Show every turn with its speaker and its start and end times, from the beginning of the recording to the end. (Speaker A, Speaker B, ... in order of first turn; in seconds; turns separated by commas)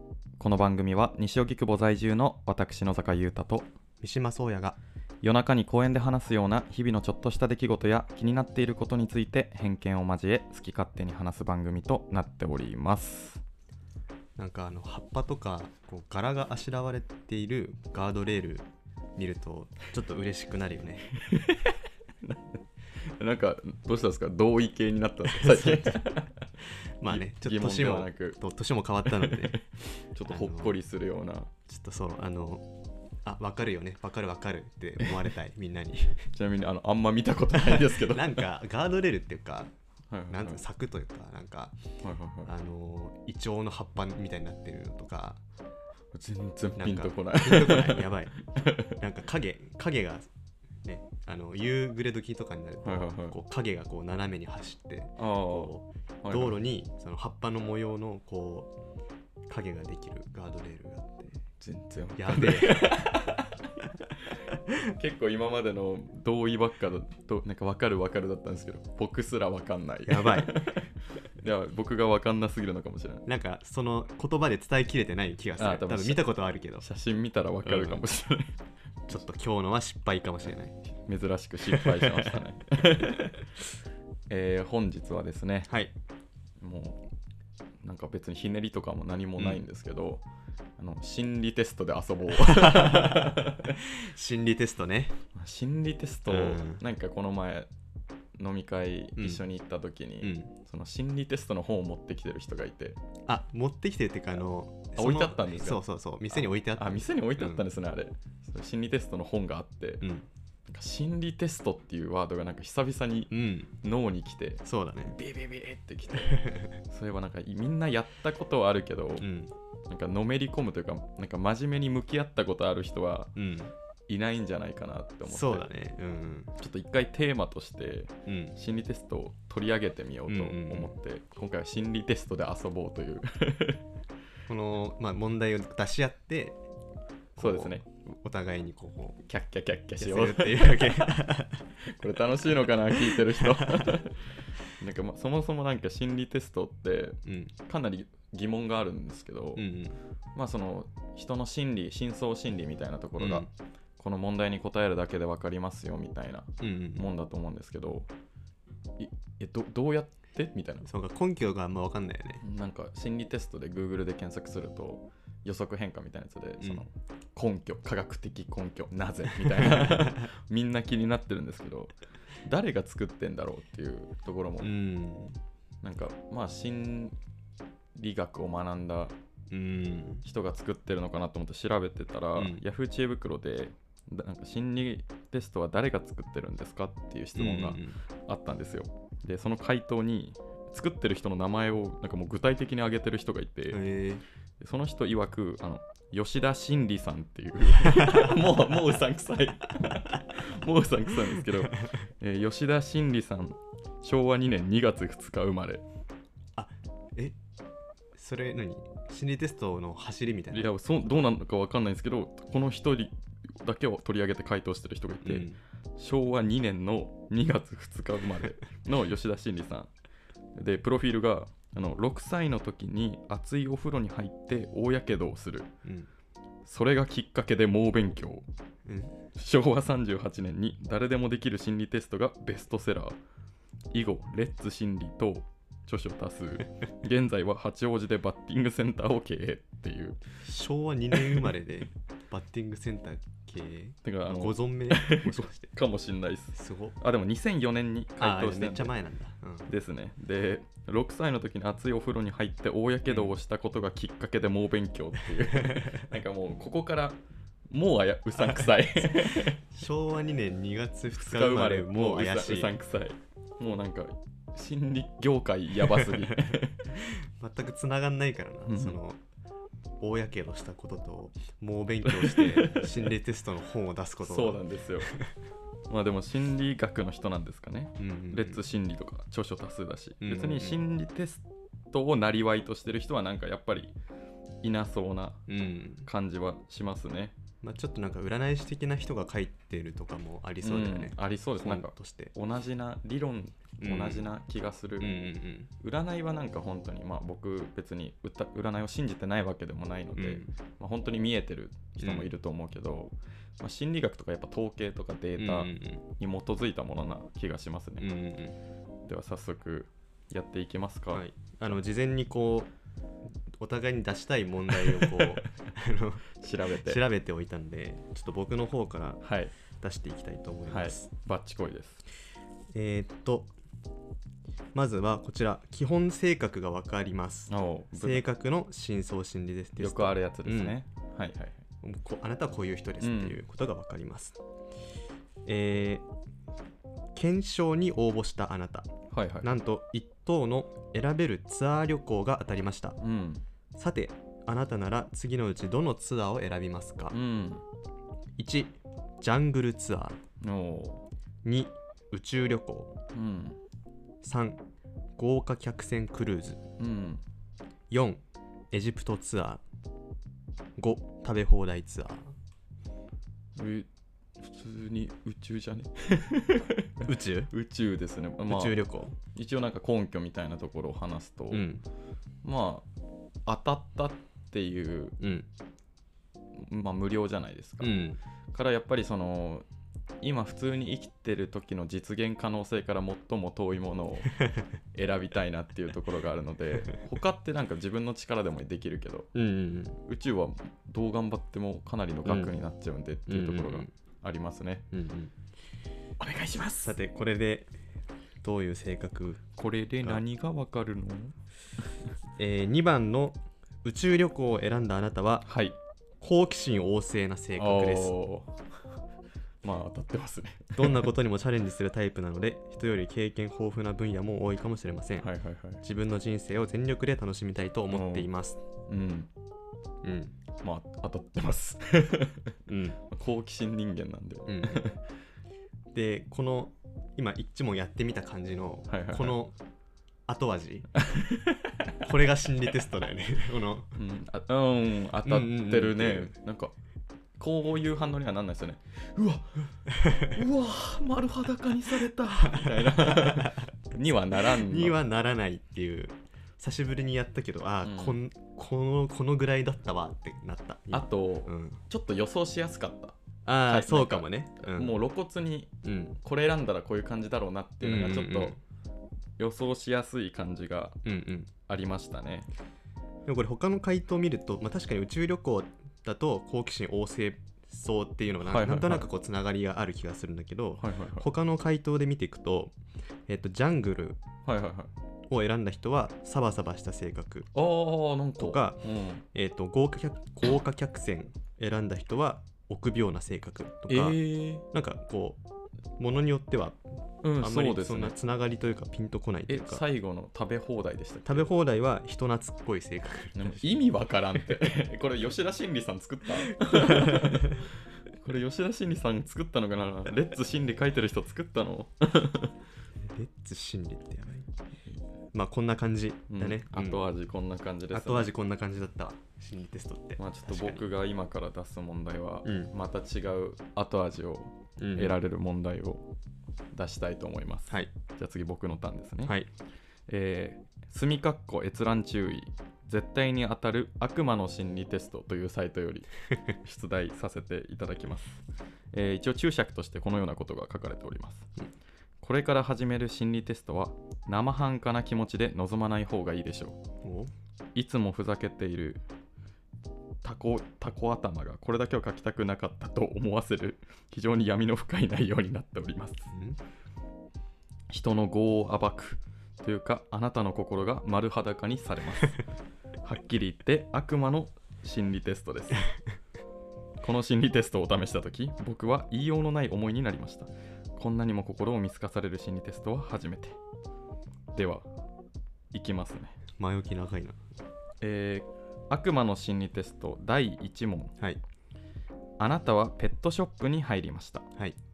Speaker A: 0.4-3.7, Speaker B: 4.0-4.8, Speaker A: 5.2-13.4, Speaker B: 14.4-21.1, Speaker A: 21.2-26.4, Speaker B: 25.2-26.0, Speaker B: 27.0-29.6, Speaker A: 27.1-28.4, Speaker A: 29.1-31.5, Speaker B: 30.3-30.7, Speaker B: 31.7-32.7, Speaker B: 33.2-36.3, Speaker A: 36.3-38.4, Speaker B: 37.5-39.7, Speaker A: 40.1-40.6, Speaker B: 40.3-41.8, Speaker A: 42.0-42.5, Speaker B: 42.5-45.4, Speaker A: 46.1-49.0, Speaker B: 46.8-48.4, Speaker B: 48.9-50.3, Speaker B: 50.8-58.7, Speaker A: 52.8-53.4, Speaker A: 55.2-55.7, Speaker A: 56.2-56.6, Speaker B: 59.5-61.4, Speaker A: 61.6-73.2, Speaker B: 62.2-63.1, Speaker B: 70.1-70.7, Speaker B: 73.2-76.8, Speaker A: 75.6-76.2, Speaker A: 76.8-78.6, Speaker B: 77.6-78.0, Speaker B: 79.1-80.8, Speaker A: 80.9-83.5, Speaker B: 81.7-82.3, Speaker A: 84.3-85.7, Speaker A: 86.6-87.0, Speaker A: 87.8-90.2, Speaker A: 90.8-93.8, Speaker B: 92.4-95.2, Speaker A: 95.3-97.7, Speaker B: 96.3-96.8, Speaker A: 98.3-103.0, Speaker B: 99.2-99.4, Speaker B: 100.2-100.5, Speaker B: 103.3-107.6, Speaker A: 105.0-105.8, Speaker A: 106.3-110.1, Speaker B: 110.0-110.3, Speaker A: 110.7-119.3, Speaker B: 113.3-113.7, Speaker B: 114.6-115.2, Speaker B: 116.2-116.7, Speaker B: 119.2-119.5, Speaker A: 119.9-123.3, Speaker B: 123.3-123.7, Speaker A: 124.1-125.7, Speaker B: 125.3-126.5, Speaker A: 126.6-133.8, Speaker B: 128.2-128.5, Speaker B: 130.3-130.9, Speaker B: 134.5-136.6, Speaker A: 137.3-137.8, Speaker B: 137.4-139.2, Speaker A: 139.2-141.2, Speaker B: 140.0-141.7, Speaker A: 141.8-149.7, Speaker B: 142.9-144.0, Speaker B: 147.2-147.5, Speaker B: 149.6-149.9, Speaker A: 150.3-158.1, Speaker B: 153.2-153.5, Speaker B: 156.6-157.0, Speaker A: 159.0-160.9, Speaker B: 160.8-162.4, Speaker A: 162.4-174.7, Speaker B: 169.4-170.2, Speaker B: 174.6-175.4, Speaker A: 175.8-177.2, Speaker A: 177.9-179.1, Speaker B: 179.5-180.2, Speaker A: 180.2-193.8, Speaker B: 182.3-182.6, Speaker B: 187.3-188.0, Speaker B: 193.7-194.2, Speaker A: 194.6-205.8, Speaker B: 197.8-198.3, Speaker B: 206.6-207.3, Speaker B: 208.1-210.7, Speaker A: 210.5-219.9, Speaker B: 215.2-215.6, Speaker A: 220.6-225.7, Speaker A: 226.7-228.4, Speaker B: 228.8-229.1, Speaker A: 229.3-233.2, Speaker A: 233.9-240.2, Speaker B: 240.4-245.7, Speaker A: 244.0-248.9, Speaker B: 246.5-246.9, Speaker B: 248.2-249.7, Speaker A: 249.7-259.7, Speaker B: 253.1-253.3, Speaker B: 255.6-255.9, Speaker B: 258.5-262.7, Speaker A: 261.1-266.9, Speaker B: 265.9-269.2, Speaker A: 268.7-269.0, Speaker B: 270.0-275.3, Speaker A: 272.0-272.9, Speaker A: 274.2-275.1, Speaker A: 275.9-283.9, Speaker B: 278.0-278.6, Speaker B: 280.2-280.8, Speaker A: 284.6-285.5, Speaker B: 285.5-286.1, Speaker A: 286.0-287.3, Speaker B: 287.6-292.3, Speaker A: 290.6-295.2, Speaker B: 293.8-294.2, Speaker B: 295.0-295.7, Speaker A: 295.8-308.1, Speaker B: 300.1-300.5, Speaker B: 302.0-302.3, Speaker B: 305.4-306.0, Speaker B: 308.0-308.6, Speaker A: 309.1-311.8, Speaker B: 311.1-312.7, Speaker B: 313.5-321.1, Speaker A: 314.8-315.4, Speaker A: 316.4-317.0, Speaker A: 319.2-319.5, Speaker A: 320.7-322.0, Speaker B: 322.7-323.5, Speaker B: 324.7-330.8, Speaker A: 327.5-328.2, Speaker A: 329.8-331.6, Speaker B: 331.8-334.4, Speaker A: 333.0-333.4, Speaker B: 335.4-336.0, Speaker B: 337.1-338.9, Speaker A: 339.1-339.5, Speaker B: 339.4-343.0, Speaker A: 343.0-343.4, Speaker B: 343.8-347.2, Speaker A: 347.1-347.6, Speaker B: 348.4-350.2, Speaker A: 350.4-351.0, Speaker B: 351.4-352.9, Speaker A: 353.1-353.6, Speaker B: 354.2-354.6, Speaker B: 355.2-356.6, Speaker A: 356.8-357.2, Speaker B: 357.9-359.6, Speaker B: 360.8-362.3, Speaker A: 363.6-363.9, Speaker A: 364.4-371.7, Speaker B: 367.0-367.5, Speaker B: 368.5-369.1, Speaker B: 371.5-371.8, Speaker A: 372.4-372.9, Speaker A: 373.4-375.2, Speaker B: 375.2-375.5, Speaker A: 376.6-378.0, Speaker B: 377.8-378.2, Speaker A: 378.5-379.6, Speaker A: 380.2-384.4, Speaker A: 384.9-389.3, Speaker B: 389.3-390.0, Speaker A: 390.1-394.8, Speaker B: 392.2-392.5, Speaker B: 393.3-393.9, Speaker B: 394.9-395.3, Speaker A: 396.2-397.0, Speaker B: 396.8-397.8, Speaker B: 398.4-399.5, Speaker A: 399.6-401.3, Speaker B: 402.4-405.5, Speaker A: 405.4-405.8, Speaker B: 406.2-408.1, Speaker A: 407.6-408.7, Speaker A: 409.6-411.1, Speaker B: 410.8-415.3, Speaker A: 415.2-415.8, Speaker B: 415.8-418.6, Speaker A: 417.9-418.3, Speaker A: 418.9-419.3, Speaker B: 420.0-420.4, Speaker A: 420.6-425.0, Speaker B: 422.7-423.0, Speaker B: 424.4-424.8, Speaker B: 425.9-429.6, Speaker A: 428.9-429.4, Speaker B: 430.3-430.9, Speaker A: 430.9-432.0, Speaker B: 432.0-433.9, Speaker A: 433.9-436.7, Speaker B: 435.2-436.3, Speaker A: 437.4-445.0, Speaker B: 439.9-440.3, Speaker B: 442.4-451.8, Speaker A: 447.8-448.2, Speaker A: 450.9-458.5, Speaker B: 453.4-454.9, Speaker B: 455.8-456.2, Speaker B: 457.8-458.6, Speaker A: 459.4-461.0, Speaker B: 461.0-461.5, Speaker A: 461.7-462.5, Speaker B: 463.2-472.8, Speaker A: 468.4-469.1, Speaker A: 470.8-471.3, Speaker B: 473.3-474.2, Speaker A: 474.4-474.9, Speaker B: 475.3-477.5, Speaker A: 477.5-479.2, Speaker B: 478.4-485.4, Speaker A: 483.9-484.6, Speaker B: 486.0-486.8, Speaker A: 487.2-488.1, Speaker B: 487.4-489.8, Speaker A: 489.5-491.5, Speaker B: 491.2-493.8, Speaker A: 493.4-502.5, Speaker B: 496.5-497.6, Speaker B: 503.0-504.5, Speaker B: 505.3-507.0, Speaker A: 506.3-508.3, Speaker B: 507.9-510.9, Speaker A: 510.2-516.1, Speaker B: 512.4-512.7, Speaker B: 514.8-515.1, Speaker A: 516.7-519.4, Speaker A: 520.1-531.5, Speaker A: 532.2-536.8, Speaker B: 537.0-537.3, Speaker A: 537.7-539.0, Speaker A: 540.2-546.3, Speaker B: 546.3-546.6, Speaker A: 547.9-552.4, Speaker A: 553.0-555.9, Speaker A: 557.0-563.6, Speaker A: 564.5-564.9, Speaker A: 565.7-566.3, Speaker B: 566.6-567.4, Speaker A: 568.0-571.1, Speaker A: 572.4-574.5